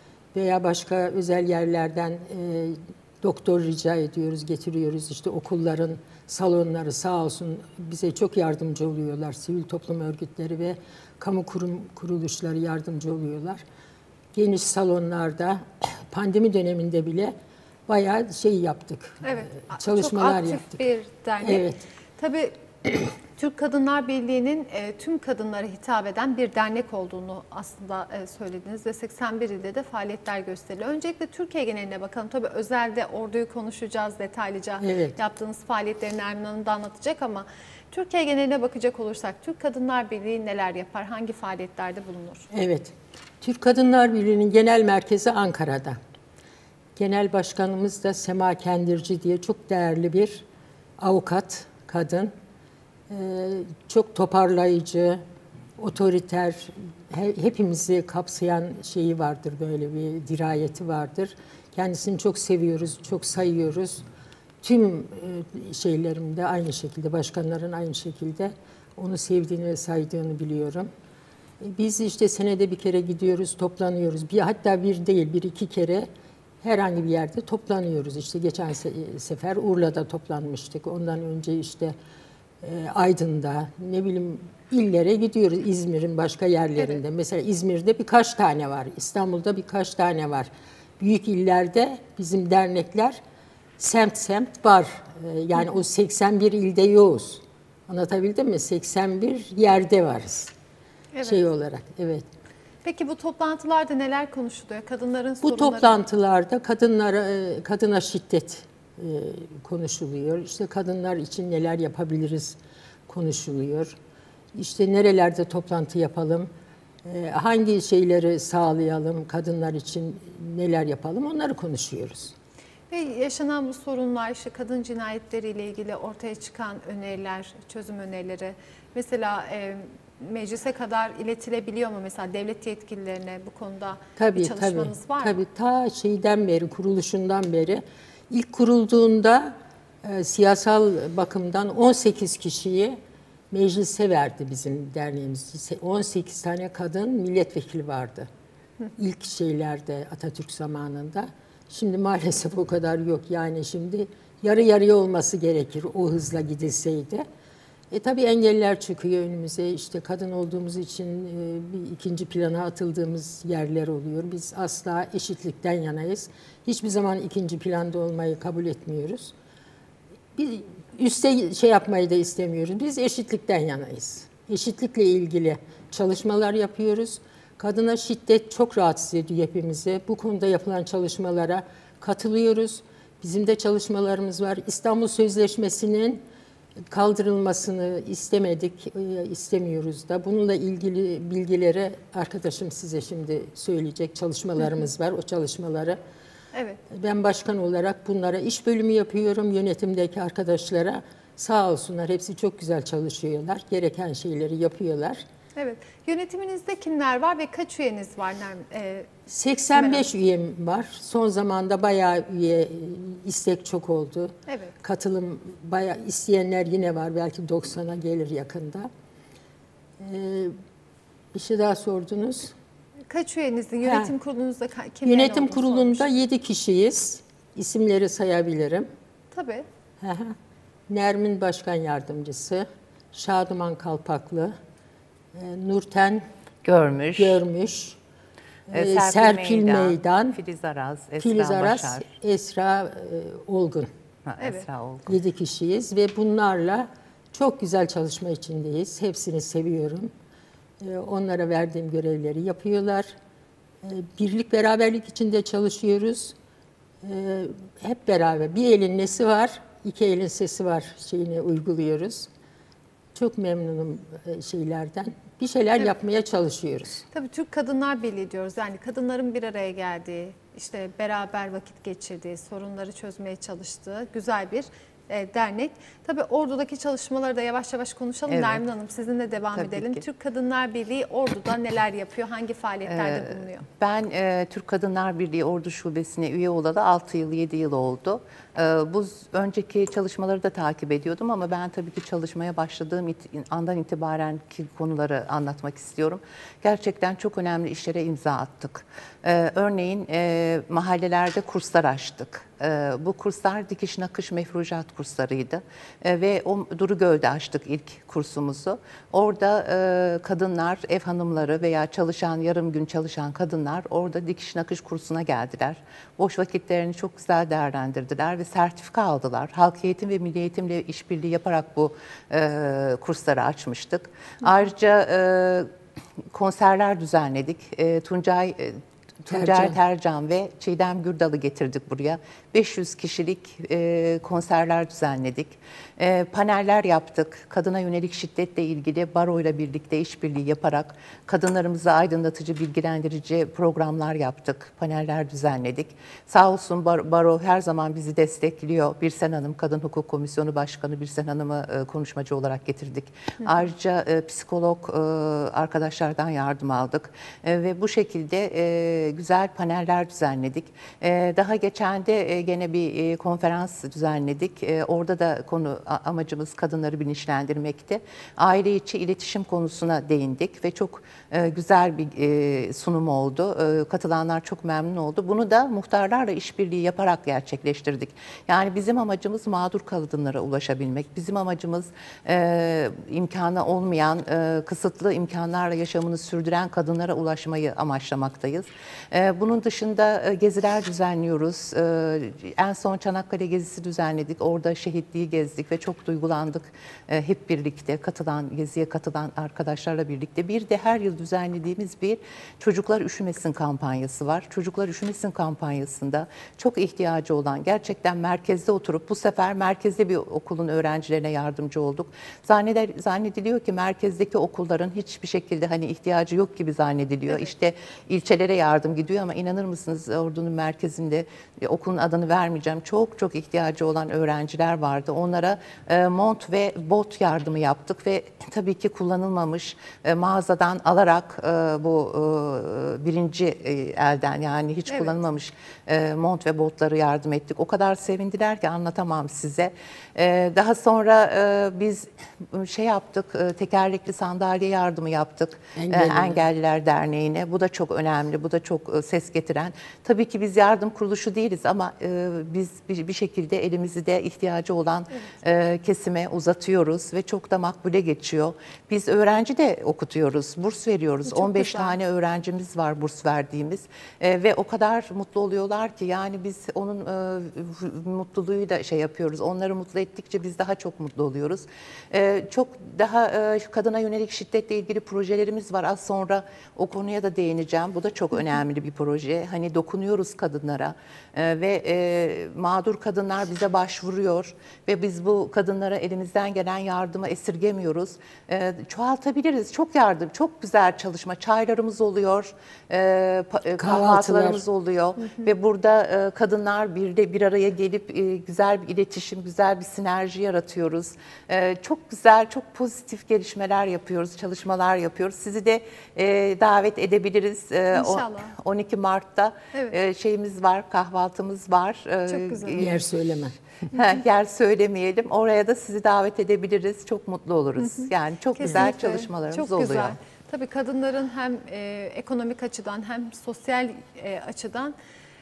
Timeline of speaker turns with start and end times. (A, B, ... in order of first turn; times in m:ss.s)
0:00.3-0:13.6 A
0:14.3-0:17.3 A
0:17.9-0:20.8 A
0:19.2-0:21.6 B
0:21.4-0:21.8 A
0:22.2-0:22.6 B
0:23.4-0:42.5 B
0:34.8-0:35.2 A
0:42.5-0:46.0 A
0:47.0-0:50.4 A
0:51.0-0:52.3 A
0:53.1-0:55.2 A
0:55.8-1:04.0 A
1:04.6-1:10.9 A
1:11.6-1:16.1 A
1:16.6-1:21.9 A
1:22.6-1:33.2 A
1:33.8-1:40.5 A
1:41.1-1:41.4 B
1:41.2-1:42.2 A
1:42.8-1:46.0 B
1:45.4-1:54.0 A
1:54.5-1:56.5 A
1:57.0-2:02.3 A
2:02.9-2:15.4 B
2:14.2-2:23.0 A
2:23.5-2:28.3 A
2:29.0-2:37.2 A
2:37.9-2:49.3 A
2:50.4-3:06.2 A
3:06.9-3:16.0 A
3:16.5-3:16.8 B
3:16.9-3:25.2 A
3:25.6-3:29.1 B
3:29.3-3:38.9 A
3:29.7-3:30.0 B
3:34.5-3:34.7 B
3:40.0-3:40.5 A
3:41.3-3:42.5 A
3:43.1-3:46.0 B
3:43.8-3:44.1 A
3:45.0-3:48.9 A
3:49.3-3:49.6 B
3:50.0-3:50.4 A
3:50.9-3:54.5 A
3:55.3-3:56.2 A
3:56.6-3:57.4 C
3:57.2-3:58.0 A
3:58.7-4:00.4 A
3:58.7-4:02.1 C
4:01.2-4:03.9 A
4:04.2-4:05.2 C
4:05.1-4:10.1 A
4:10.8-4:13.1 A
4:13.8-4:16.4 A
4:17.0-4:22.3 A
4:23.1-4:27.0 A
4:27.1-4:43.6 B
4:38.3-4:38.6 C
4:39.5-4:40.0 C
4:42.8-5:25.7 C
5:26.3-8:33.0 C
5:29.3-5:29.8 A
7:14.9-7:15.1 B
7:25.8-7:26.4 A
7:41.3-7:42.0 B
8:13.8-8:14.6 A
8:27.9-8:28.5 B
8:32.3-8:32.8 B
8:32.8-8:33.6 A
8:33.9-8:40.2 C
8:37.8-8:44.9 B